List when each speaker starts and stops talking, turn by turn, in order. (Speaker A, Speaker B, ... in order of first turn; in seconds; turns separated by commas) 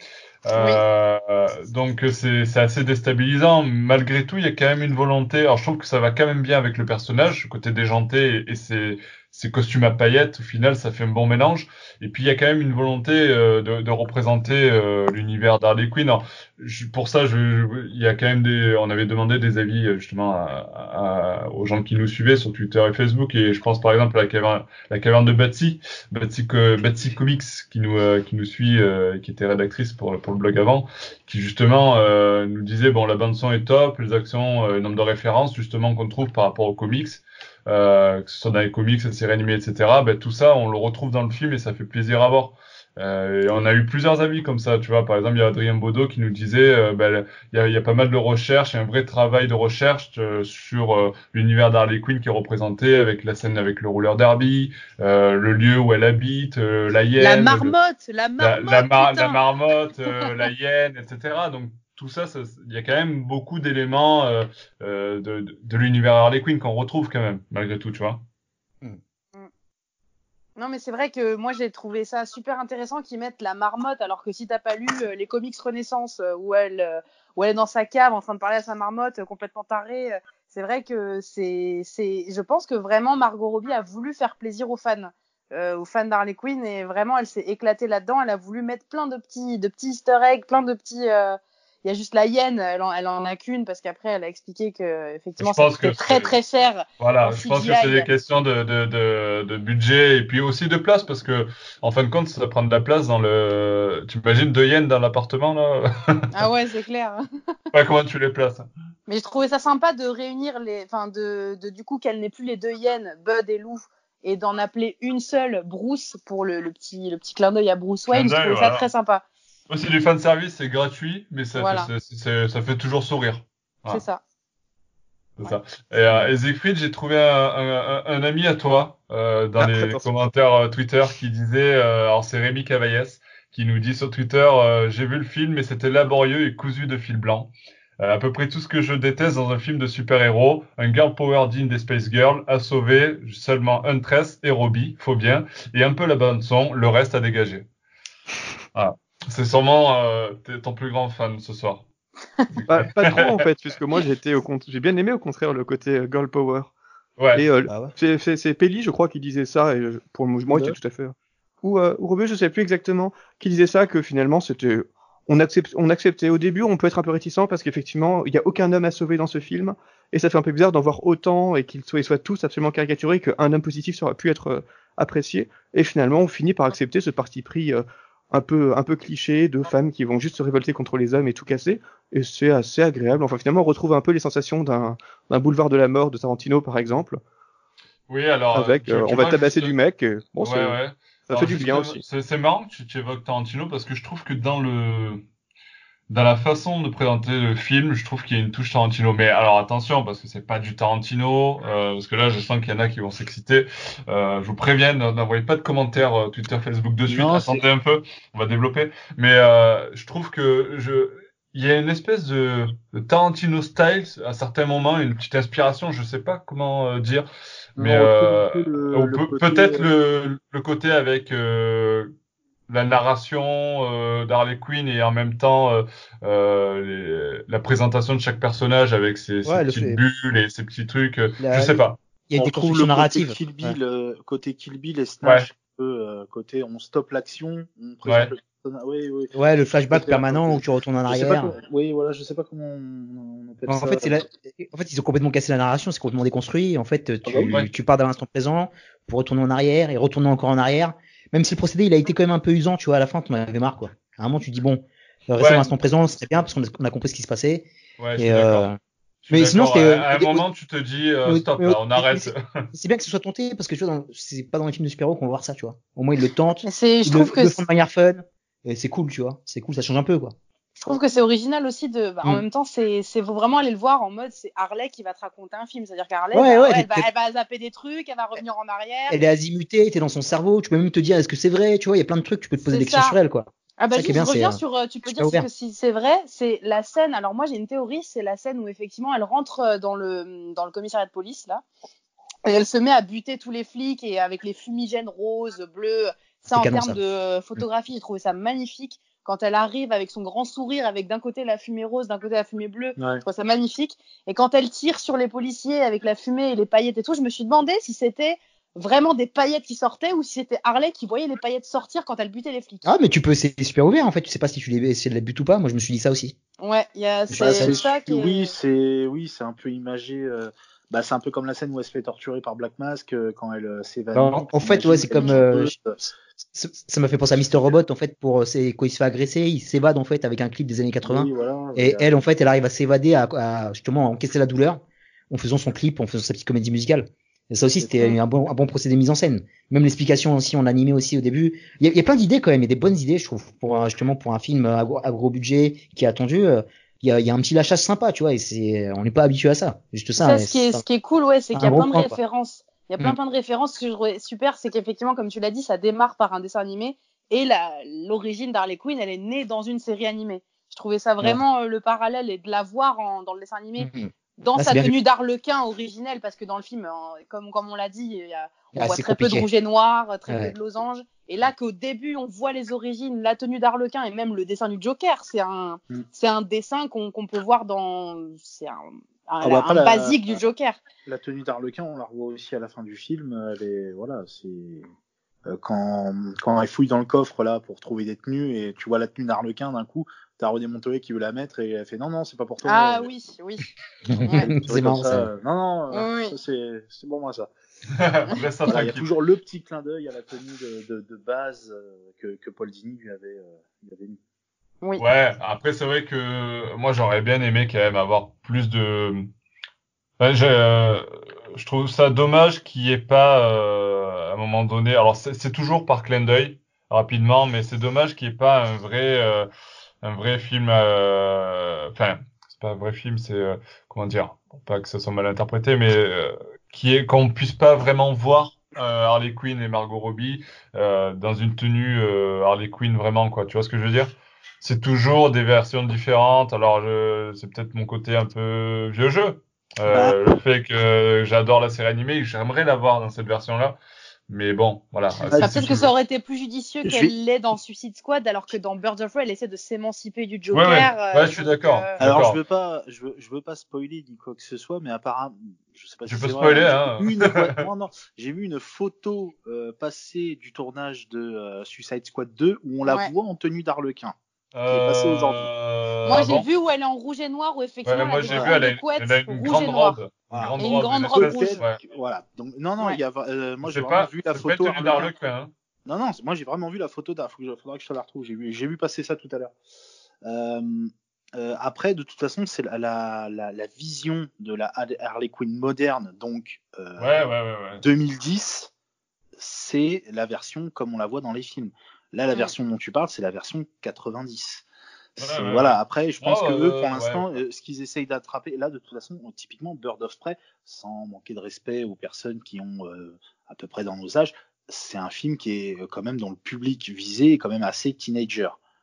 Speaker A: 0.5-57.7, Speaker B: 0.5-0.8, Speaker B: 57.2-59.4, Speaker A: 58.4-68.2, Speaker B: 70.5-98.1, Speaker A: 95.4-96.4, Speaker A: 97.0-106.3, Speaker B: 106.3-107.2, Speaker A: 107.7-108.7, Speaker B: 109.1-119.2, Speaker A: 118.1-118.9, Speaker A: 119.7-124.0, Speaker B: 121.5-121.9, Speaker B: 123.9-124.2, Speaker A: 125.4-147.7, Speaker C: 129.6-130.2, Speaker A: 148.7-151.8, Speaker A: 152.5-153.4, Speaker C: 152.7-156.7, Speaker A: 157.2-157.4, Speaker C: 157.3-187.2, Speaker A: 188.1-189.7, Speaker C: 188.5-190.8, Speaker A: 190.4-195.2, Speaker C: 191.3-192.0, Speaker A: 196.1-222.1, Speaker D: 207.1-207.6, Speaker D: 217.8-219.9, Speaker A: 222.7-232.0, Speaker E: 229.4-230.0, Speaker E: 231.4-233.8, Speaker D: 232.4-239.3, Speaker A: 235.2-235.5, Speaker A: 238.0-238.3, Speaker E: 239.3-241.5, Speaker D: 239.9-244.2, Speaker E: 243.7-257.7, Speaker D: 247.2-247.5, Speaker A: 255.4-255.7, Speaker A: 258.0-258.7, Speaker E: 258.2-258.8, Speaker A: 259.3-262.4, Speaker E: 259.3-260.4, Speaker E: 261.2-270.4, Speaker B: 266.6-267.6, Speaker B: 270.8-279.2, Speaker E: 276.3-277.1, Speaker E: 279.1-285.5, Speaker B: 282.6-283.2, Speaker B: 283.8-291.6, Speaker B: 292.4-312.9, Speaker E: 296.5-297.0, Speaker D: 303.0-303.2, Speaker E: 312.8-316.3, Speaker B: 316.6-318.5, Speaker E: 317.3-317.8, Speaker D: 317.4-326.0, Speaker E: 324.1-325.7, Speaker B: 325.1-325.4, Speaker E: 326.5-350.8, Speaker D: 331.0-332.1, Speaker D: 337.8-338.1, Speaker B: 350.2-380.8, Speaker E: 351.5-352.2, Speaker E: 363.8-365.0, Speaker E: 368.7-369.5, Speaker E: 370.3-370.5, Speaker D: 379.4-380.4, Speaker D: 381.1-384.9, Speaker D: 385.5-393.1, Speaker B: 392.6-393.7, Speaker E: 394.1-395.3, Speaker B: 394.2-394.5, Speaker D: 394.4-397.5, Speaker B: 395.9-396.3, Speaker A: 397.9-399.1, Speaker D: 398.7-404.2, Speaker A: 405.0-409.3, Speaker A: 410.2-419.5, Speaker A: 420.0-445.9, Speaker D: 439.9-440.2, Speaker D: 445.2-445.6, Speaker B: 445.4-451.9, Speaker D: 446.8-447.1, Speaker A: 450.5-452.4, Speaker D: 452.0-464.1, Speaker A: 456.1-457.7, Speaker B: 462.8-463.1, Speaker A: 464.5-466.5, Speaker D: 464.7-465.4, Speaker B: 466.0-470.0, Speaker A: 467.8-471.8, Speaker D: 468.3-468.5, Speaker D: 470.3-470.6, Speaker B: 470.6-471.6, Speaker D: 471.1-475.1, Speaker A: 473.6-475.5, Speaker D: 475.9-479.5, Speaker D: 480.2-487.3, Speaker A: 487.0-487.8, Speaker D: 487.8-488.7, Speaker D: 489.4-494.6, Speaker D: 495.2-508.6, Speaker A: 495.2-497.4